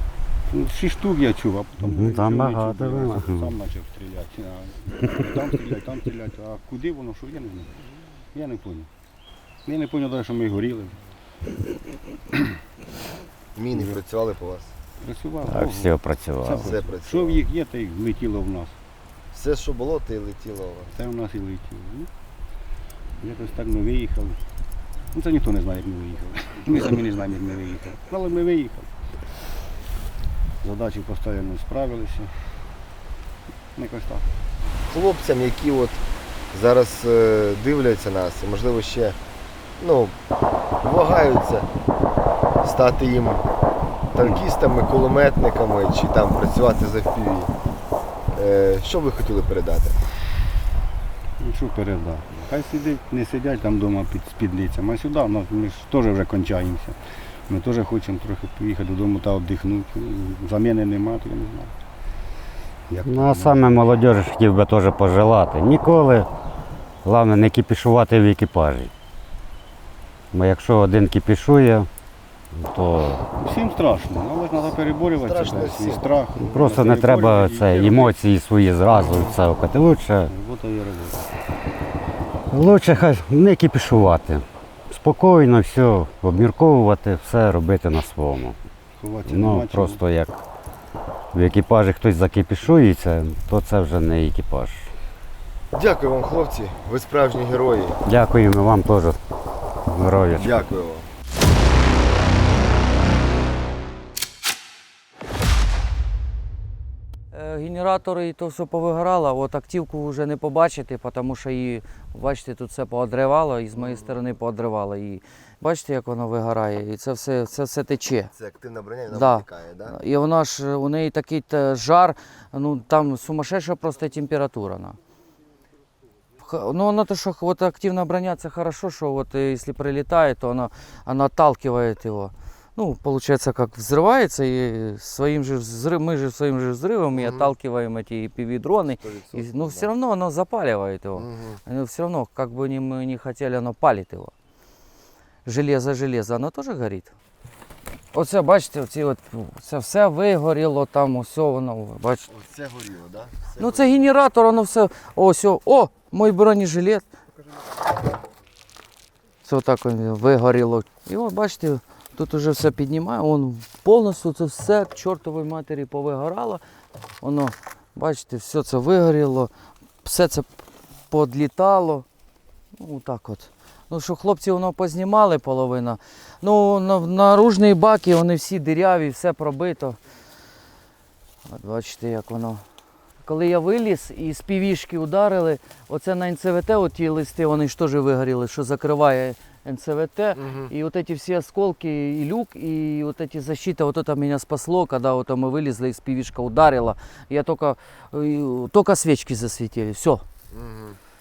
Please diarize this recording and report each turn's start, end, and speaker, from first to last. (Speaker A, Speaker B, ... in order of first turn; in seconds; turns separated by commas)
Speaker A: 0.5-7.8, Speaker B: 1.8-3.5, Speaker A: 8.3-8.9, Speaker A: 9.7-11.0, Speaker C: 13.5-14.7, Speaker A: 15.0-18.8, Speaker B: 15.4-16.7, Speaker C: 16.6-17.4, Speaker C: 19.3-20.9, Speaker A: 20.9-22.1, Speaker A: 23.2-24.4, Speaker A: 25.1-28.9, Speaker A: 30.6-32.3, Speaker A: 33.8-34.2, Speaker C: 34.9-36.0, Speaker C: 36.5-39.2, Speaker C: 39.8-40.1, Speaker C: 40.8-41.7, Speaker C: 42.6-43.5, Speaker C: 44.1-47.5, Speaker C: 48.3-50.0, Speaker A: 51.4-57.0, Speaker A: 57.5-61.7, Speaker A: 62.9-64.0, Speaker B: 63.0-66.3, Speaker B: 67.0-68.9, Speaker B: 70.3-71.9, Speaker B: 72.5-73.2, Speaker A: 73.3-78.1, Speaker C: 75.1-76.7, Speaker B: 76.4-80.3, Speaker A: 80.3-81.3, Speaker B: 82.5-88.6, Speaker A: 89.0-90.0, Speaker B: 89.2-90.4, Speaker B: 91.3-94.9, Speaker C: 95.7-98.0, Speaker B: 98.0-99.2, Speaker B: 99.9-100.7, Speaker C: 100.3-101.1, Speaker D: 107.3-118.3, Speaker C: 113.8-114.1, Speaker C: 118.3-120.0, Speaker D: 119.1-125.0, Speaker D: 126.4-144.3, Speaker C: 137.1-137.5, Speaker C: 139.0-139.9, Speaker C: 141.1-141.6, Speaker D: 145.4-147.1, Speaker D: 148.1-152.3, Speaker C: 152.3-154.0, Speaker D: 153.6-157.0, Speaker D: 159.4-166.6, Speaker D: 167.2-169.5, Speaker D: 170.0-170.5, Speaker D: 171.1-172.1, Speaker D: 172.8-180.0, Speaker D: 181.5-182.6, Speaker D: 183.2-200.2, Speaker C: 190.3-190.7, Speaker C: 200.5-201.0